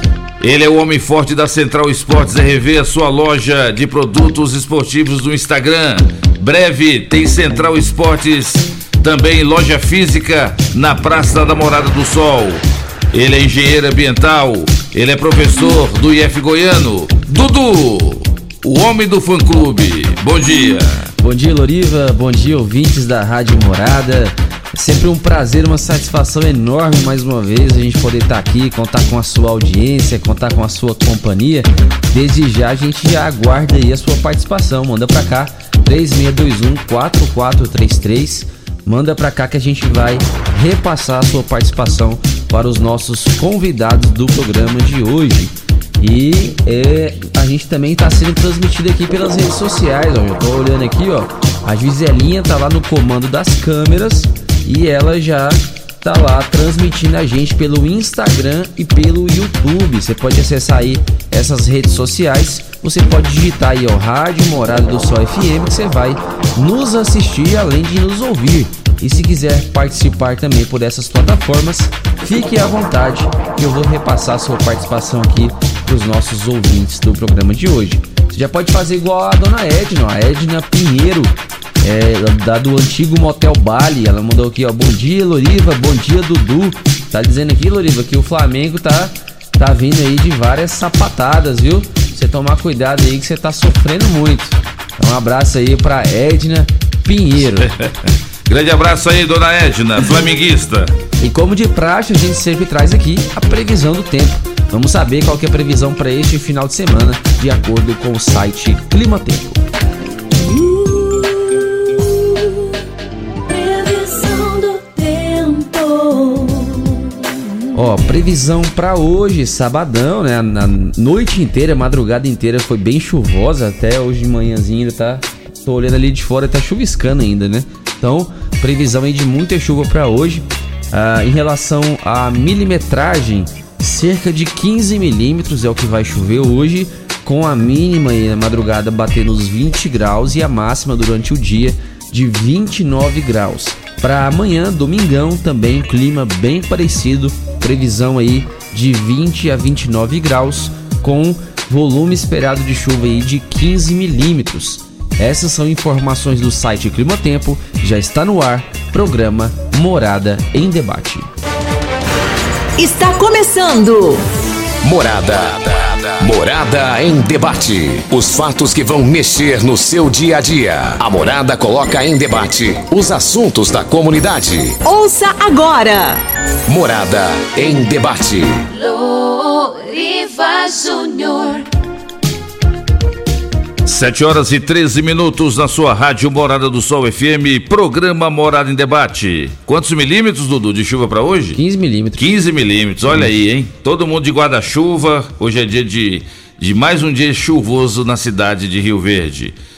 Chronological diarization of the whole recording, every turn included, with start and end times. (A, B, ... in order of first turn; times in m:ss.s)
0:00.4-0:21.1 A
0:21.2-1:37.7 B
1:37.6-1:37.9 A
1:38.5-1:40.9 A
1:41.2-1:49.6 B
1:50.6-1:51.1 C
1:53.5-1:56.8 C
1:57.8-2:41.3 B
2:42.8-2:44.2 D
2:44.8-2:54.8 E
2:54.8-2:56.2 D
2:56.7-2:58.6 E
2:58.7-3:01.7 C
3:03.9-3:11.6 A
3:11.6-3:12.3 B
3:12.2-3:19.6 A